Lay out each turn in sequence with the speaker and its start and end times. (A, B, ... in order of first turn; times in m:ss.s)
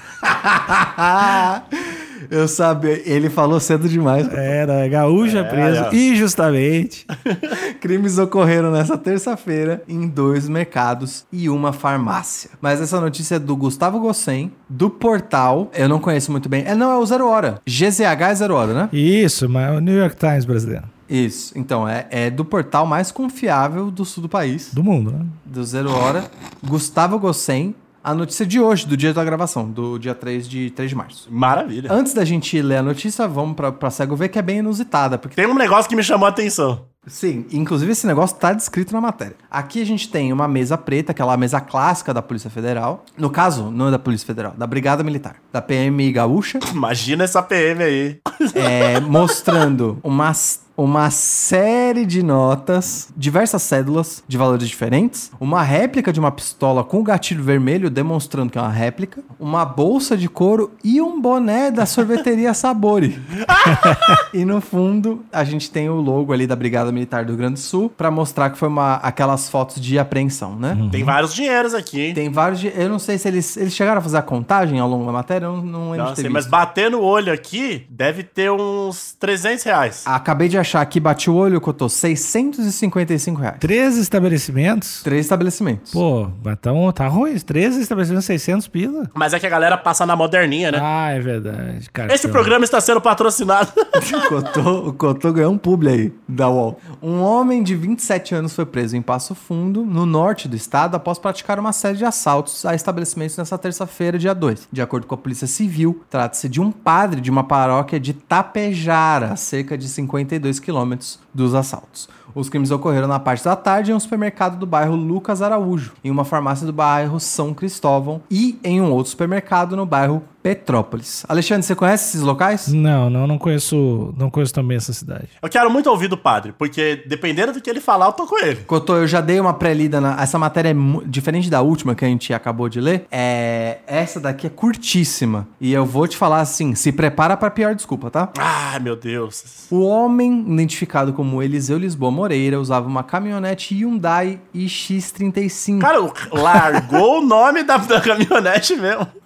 0:00.2-0:04.6 A
0:04.2-0:07.1 B
0:05.2-0:06.0 C
0:07.2-0:07.5 C
0:07.5-0:18.9 A
0:18.9-0:20.9 B
0:21.1-0:24.8 A
0:24.7-0:25.3 B
0:25.4-0:31.3 A
0:31.3-0:32.0 C
0:31.9-0:35.4 A
0:35.4-0:36.8 C
0:37.1-0:46.6 A
0:46.6-0:49.6 C
0:48.5-1:03.3 A
1:03.5-1:04.2 C
1:04.3-1:10.8 A
1:10.7-1:11.2 B
1:10.9-1:12.2 C
1:12.1-1:16.5 A
1:15.9-1:20.1 C
1:20.0-1:23.6 A
1:23.6-1:25.0 B
1:25.0-1:26.0 A
1:25.9-1:29.1 B
1:29.1-1:30.8 C
1:30.7-1:32.5 B
1:32.1-1:33.7 C
1:33.9-2:02.7 A
2:02.7-2:05.3 B
2:05.4-2:08.7 C
2:08.7-2:18.3 A
2:18.3-2:19.7 C
2:19.7-2:26.8 A
2:25.8-2:29.1 C